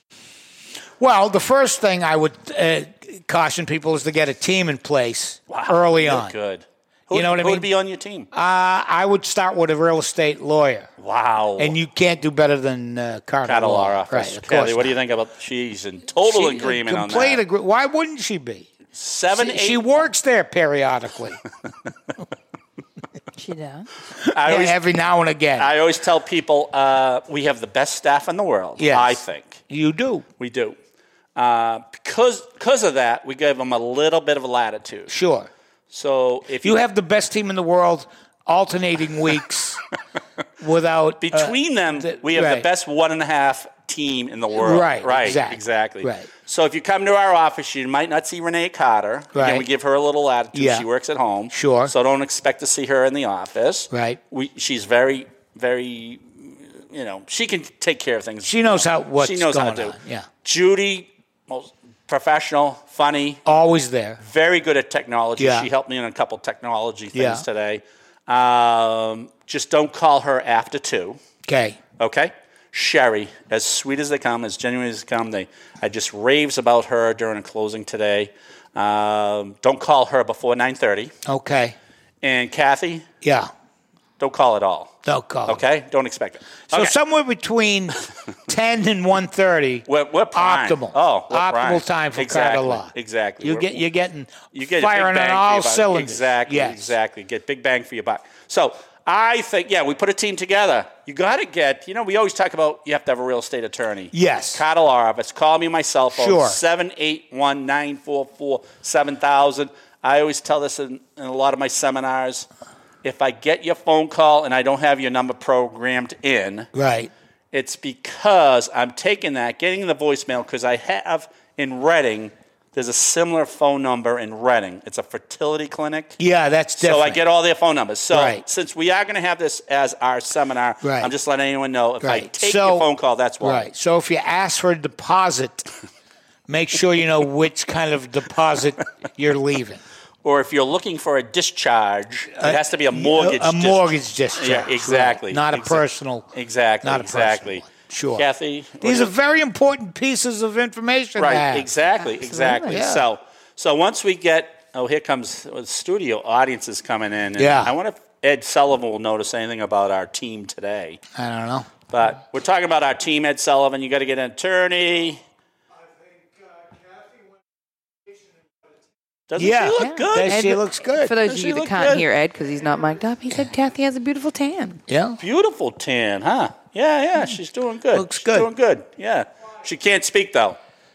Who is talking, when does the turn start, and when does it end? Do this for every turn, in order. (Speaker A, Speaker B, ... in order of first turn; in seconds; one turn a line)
Speaker A: 1.0-6.3
Speaker B: 5.5-8.3
Speaker A: 7.1-7.7
Speaker A: 8.3-10.9
Speaker B: 11.0-11.7
Speaker A: 11.6-15.0
Speaker B: 13.4-17.4
Speaker A: 16.2-18.7
Speaker B: 18.9-20.1
Speaker A: 19.3-21.4
Speaker C: 23.4-23.9
Speaker A: 24.2-25.7
Speaker B: 24.3-24.8
Speaker B: 25.6-29.6
Speaker A: 28.8-30.2
Speaker B: 30.4-30.8
Speaker B: 31.4-35.1
Speaker A: 35.1-35.5
Speaker B: 35.9-36.8
Speaker A: 36.6-39.8
Speaker A: 40.6-42.6
Speaker B: 41.2-63.4
Speaker A: 44.5-46.3
Speaker A: 49.3-49.6
Speaker A: 50.5-50.9
Speaker A: 51.5-51.9
Speaker A: 53.9-54.2
Speaker A: 58.4-60.3
Speaker A: 63.4-64.2
Speaker B: 64.2-71.2
Speaker A: 65.4-65.7
Speaker A: 67.1-67.4
Speaker A: 71.5-71.8
Speaker B: 72.0-81.1
Speaker A: 81.2-81.7
Speaker B: 82.2-83.1
Speaker A: 83.2-83.5
Speaker B: 84.2-84.9
Speaker A: 85.0-85.6
Speaker B: 85.5-86.9
Speaker A: 86.7-96.9
Speaker B: 89.9-93.8
Speaker B: 94.5-112.5
Speaker A: 104.1-104.6
Speaker A: 106.1-106.6
Speaker B: 113.0-116.7
Speaker A: 116.7-117.1
Speaker B: 117.5-126.2
Speaker A: 126.2-127.2
Speaker B: 126.8-133.7
Speaker A: 128.1-128.4
Speaker A: 130.8-131.1
Speaker A: 132.0-132.9
Speaker A: 133.4-135.7
Speaker A: 136.5-139.8
Speaker B: 140.2-149.1
Speaker A: 142.3-146.3
Speaker A: 146.8-148.2
Speaker A: 148.8-151.7
Speaker B: 151.2-161.0
Speaker C: 152.0-152.8
Speaker A: 152.7-153.1
Speaker A: 157.4-157.7
Speaker A: 161.1-161.7
Speaker B: 161.9-165.2
Speaker B: 169.3-170.6
Speaker A: 169.4-171.1
Speaker C: 169.8-174.8
Speaker B: 171.2-172.1
Speaker A: 174.9-175.2
Speaker B: 175.2-180.6
Speaker A: 177.9-178.5